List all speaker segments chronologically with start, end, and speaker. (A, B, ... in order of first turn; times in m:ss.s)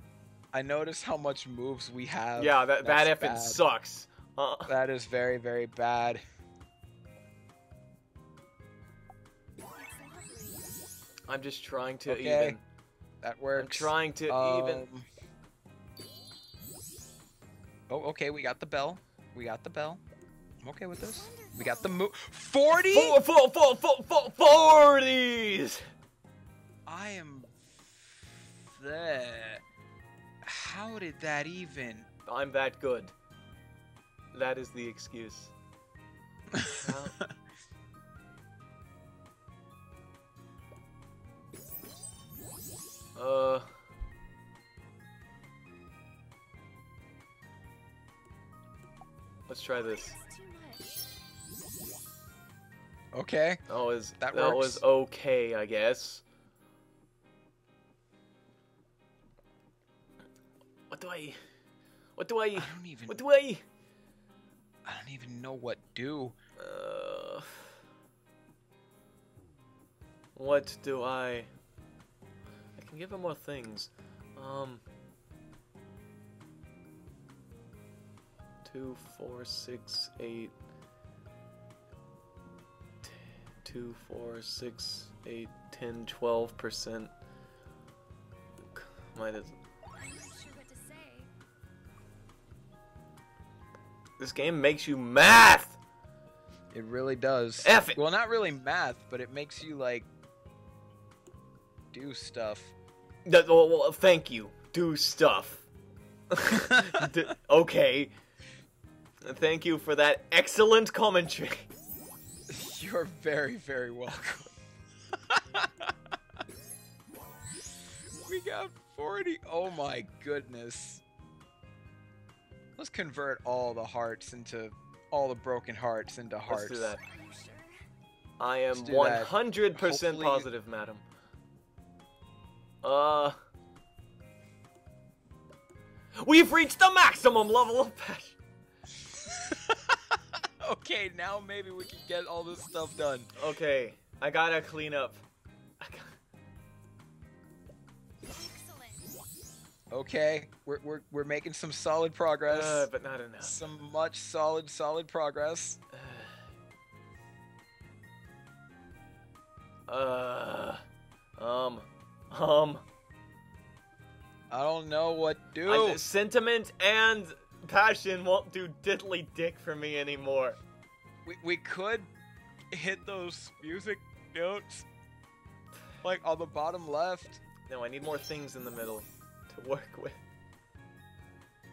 0:00.5-0:03.6 A
0:02.4-0:04.7 B
0:04.7-0:06.2 A
0:09.7-0:10.7 C
0:11.3-0:12.6 B
0:12.0-0:12.6 A
0:13.2-0:15.0 A
0:13.5-0:14.8 B
0:17.9-0:20.0 A
0:20.6-0:23.2 A
0:21.0-0:22.1 C
0:22.9-0:25.8 B
0:26.8-0:29.6 A
0:30.4-0:32.1 A
0:32.2-0:33.1 B
0:34.3-0:35.5 B
0:36.7-0:37.2 B
0:43.2-0:43.7 B
0:49.5-0:50.2 B
0:49.7-0:51.0 C
0:53.1-0:53.6 A
0:53.7-0:56.2 B
0:54.2-0:54.8 A
1:00.9-1:01.4 B
1:02.2-1:03.6 B
1:02.6-1:03.2 A
1:04.8-1:06.4 A
1:06.6-1:07.6 B
1:10.4-1:11.5 B
1:12.8-1:14.8 B
1:18.6-1:20.5 B
1:23.0-1:27.1 B
1:28.8-1:29.5 B
1:30.0-1:31.3 C
1:34.2-1:35.8 B
1:36.7-1:40.1 A
1:37.6-1:38.0 B
1:41.9-1:42.7 A
1:43.2-1:45.6 B
1:46.3-1:48.1 B
1:46.5-1:47.1 A
1:49.2-1:51.7 B
1:52.5-1:54.5 A
1:55.1-1:55.9 A
1:58.2-2:01.0 A
2:02.8-2:06.9 A
2:06.5-2:07.0 B
2:07.0-2:07.8 C
2:08.4-2:11.0 B
2:08.7-2:10.5 A
2:12.8-2:13.4 B
2:16.2-2:18.4 B
2:19.0-2:23.3 A
2:23.4-2:25.2 B
2:25.8-2:26.1 B
2:28.3-2:29.2 C
2:29.9-2:32.9 A
2:32.5-2:33.6 B
2:33.4-2:35.8 A
2:35.9-2:36.3 B
2:39.9-2:40.8 B
2:41.4-2:42.8 B
2:44.5-2:46.0 A
2:45.6-2:50.6 B
2:51.2-2:52.1 A
2:52.7-2:54.9 A
2:56.0-2:57.4 A
2:57.7-3:00.2 B